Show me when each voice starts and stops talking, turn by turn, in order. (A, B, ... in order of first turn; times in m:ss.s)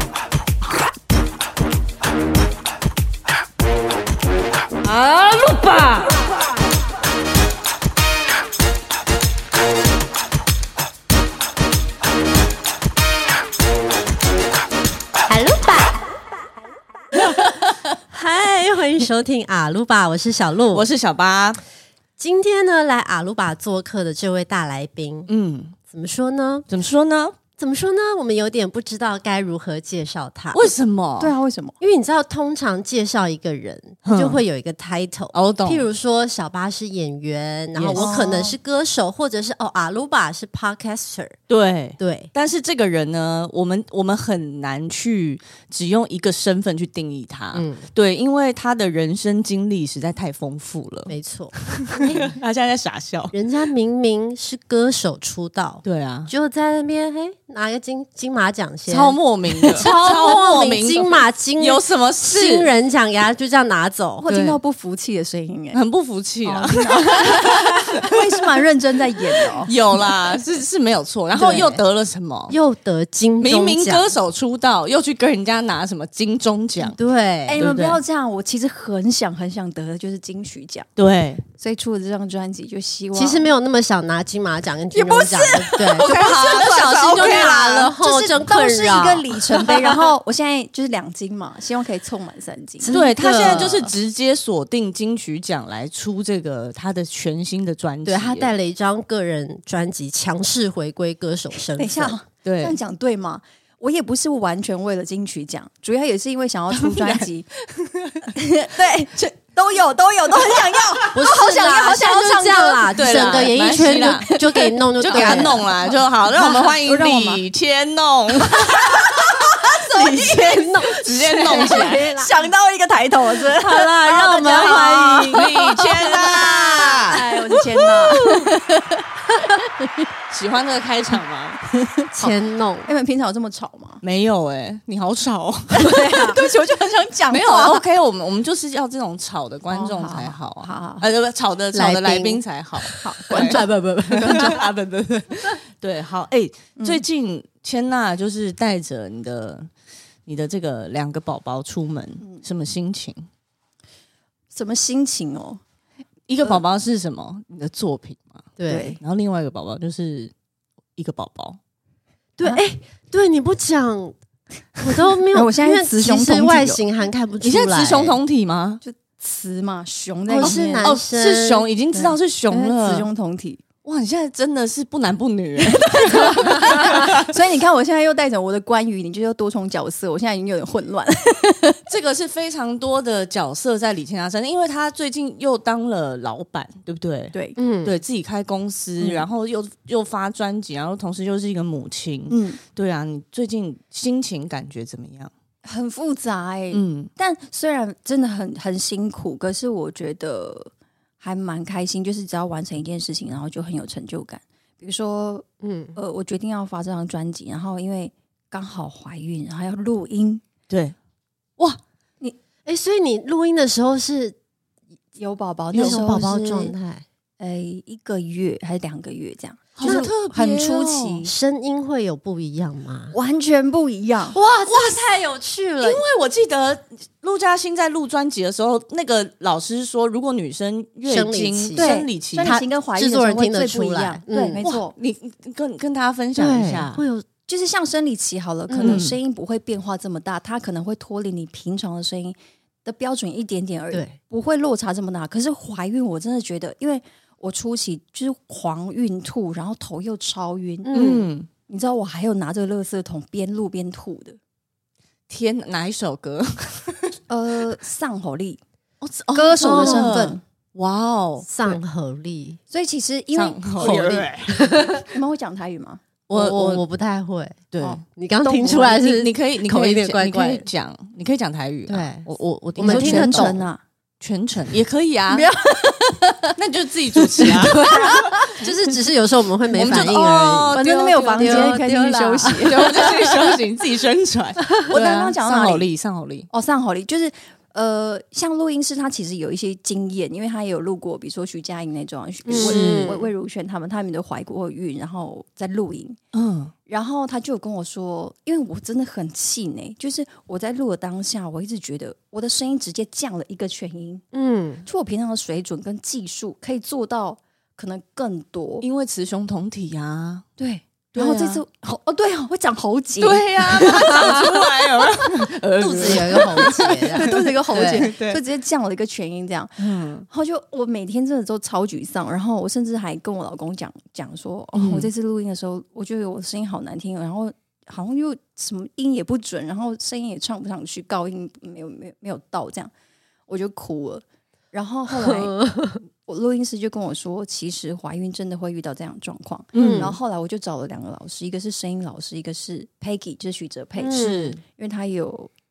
0:04.8-0:06.1 A
0:15.3-0:15.9 A
0:18.1-0:20.9 A
0:20.7-0:21.6 B
0:22.2-0:25.3 A
0:25.3-0:25.8 B
0:25.9-0:26.7 A
0:26.7-0:27.4 B
0:27.6-0:30.7 A
0:30.5-0:31.3 B
0:31.2-0:31.8 C
0:31.8-0:41.4 A
0:34.0-0:34.4 B
0:35.3-0:35.8 B
0:37.8-0:38.3 B
0:38.0-0:38.5 C
0:41.5-0:51.1 B
0:42.0-0:42.3 A
0:47.5-0:47.9 A
0:51.1-0:52.3 A
0:51.7-0:53.4 B
0:53.3-1:04.3 A
0:55.8-0:56.3 B
0:58.9-1:02.7 B
0:59.7-1:00.4 C
1:04.2-1:05.8 C
1:04.3-1:04.6 B
1:05.7-1:08.1 B
1:06.4-1:09.7 C
1:09.6-1:12.6 B
1:11.4-1:11.8 A
1:12.5-1:14.1 A
1:13.4-1:17.0 B
1:16.9-1:17.6 A
1:17.5-1:20.9 C
1:17.6-1:18.0 B
1:21.0-1:21.4 B
1:21.6-1:23.5 C
1:23.2-1:29.9 A
1:24.9-1:33.7 C
1:26.0-1:28.0 B
1:32.8-1:33.9 A
1:32.9-1:38.5 B
1:38.1-1:42.2 A
1:41.6-1:47.5 C
1:42.4-1:42.8 B
1:46.7-1:48.4 B
1:48.4-1:57.4 C
1:50.5-1:51.0 B
1:51.1-1:55.6 A
1:53.0-1:54.3 B
1:55.0-1:59.6 B
1:58.5-2:08.2 C
1:59.8-2:02.3 A
2:00.1-2:02.1 B
2:03.5-2:07.2 A
2:04.5-2:07.2 B
2:07.7-2:08.5 B
2:08.2-2:08.5 A
2:10.3-2:11.6 B
2:11.8-2:14.0 C
2:12.2-2:12.9 A
2:14.0-2:16.2 B
2:15.8-2:17.8 C
2:16.0-2:16.4 A
2:17.3-2:23.6 B
2:19.7-2:21.1 C
2:21.7-2:22.4 A
2:23.0-2:24.6 C
2:23.3-2:24.6 A
2:24.2-2:29.7 B
2:26.8-2:27.0 C
2:30.3-2:33.3 B
2:34.5-2:35.6 C
2:36.3-2:40.3 B
2:38.6-2:39.0 A
2:38.7-2:39.0 C
2:41.0-2:41.6 B
2:42.4-2:44.2 A
2:44.8-2:48.2 A
2:45.3-2:46.8 C
2:47.4-2:48.8 B
2:48.8-2:50.9 C
2:50.3-2:51.7 A
2:50.4-2:53.1 B
2:51.9-2:53.6 C
2:53.8-2:57.3 B
2:55.6-3:01.8 C
3:01.9-3:15.3 B
3:07.3-3:07.6 C
3:07.6-3:08.0 A
3:09.0-3:09.2 C
3:12.3-3:12.6 C
3:15.6-3:30.4 C
3:16.7-3:17.1 B
3:25.6-3:26.0 A
3:30.7-3:31.0 B
3:32.6-3:34.4 A
3:35.2-3:36.7 C
3:35.7-3:37.0 A
3:37.4-3:41.3 C
3:39.8-3:41.2 B
3:39.8-3:40.1 A
3:41.2-3:43.1 A
3:43.1-3:44.4 C
3:44.4-3:45.1 B
3:44.5-3:46.0 A
3:45.8-3:52.6 B
3:51.1-3:54.6 A
3:51.8-3:54.9 C
3:54.6-3:57.0 B
3:56.4-3:57.3 A
3:57.5-4:10.9 C
3:58.7-3:59.0 A
3:58.8-3:59.2 B
4:10.8-4:11.3 A
4:10.9-4:11.5 B
4:11.7-4:14.4 C
4:15.3-4:17.2 B
4:17.3-4:18.6 C
4:19.0-4:21.5 B
4:19.3-4:20.4 C
4:19.6-4:20.2 A
4:21.4-4:22.6 A
4:22.7-4:24.3 C
4:23.3-4:24.5 B
4:23.8-4:25.1 A
4:25.0-4:26.0 C
4:26.3-4:26.8 B
4:26.3-4:30.7 A
4:27.7-4:28.0 B
4:27.8-4:28.8 C
4:28.6-4:33.6 B
4:31.9-4:32.3 A
4:32.8-4:33.6 A
4:32.8-4:33.8 C
4:34.2-4:35.5 B
4:35.3-4:36.3 C
4:36.6-4:38.4 B
4:37.4-4:38.4 C
4:38.1-4:43.2 A
4:39.7-4:41.8 B
4:39.7-4:43.1 C
4:42.6-4:46.5 B
4:44.8-4:45.9 C
4:46.5-4:56.2 C
4:52.5-4:53.3 A
4:52.5-4:53.2 B
4:56.3-4:56.7 B
4:56.9-5:04.2 C
5:04.3-5:04.9 A
5:04.9-5:08.8 C
5:08.8-5:10.4 B
5:10.6-5:14.5 C
5:11.1-5:11.6 B
5:13.2-5:18.4 B
5:14.1-5:14.5 A
5:15.8-5:18.0 A
5:16.0-5:32.9 C
5:19.8-5:20.3 B
5:24.8-5:25.1 A
5:33.5-5:35.6 C
5:35.1-5:36.0 A
5:36.2-5:45.5 C
5:39.7-5:40.1 B
5:39.8-5:40.2 A
5:44.0-5:44.6 A
5:44.1-5:44.6 B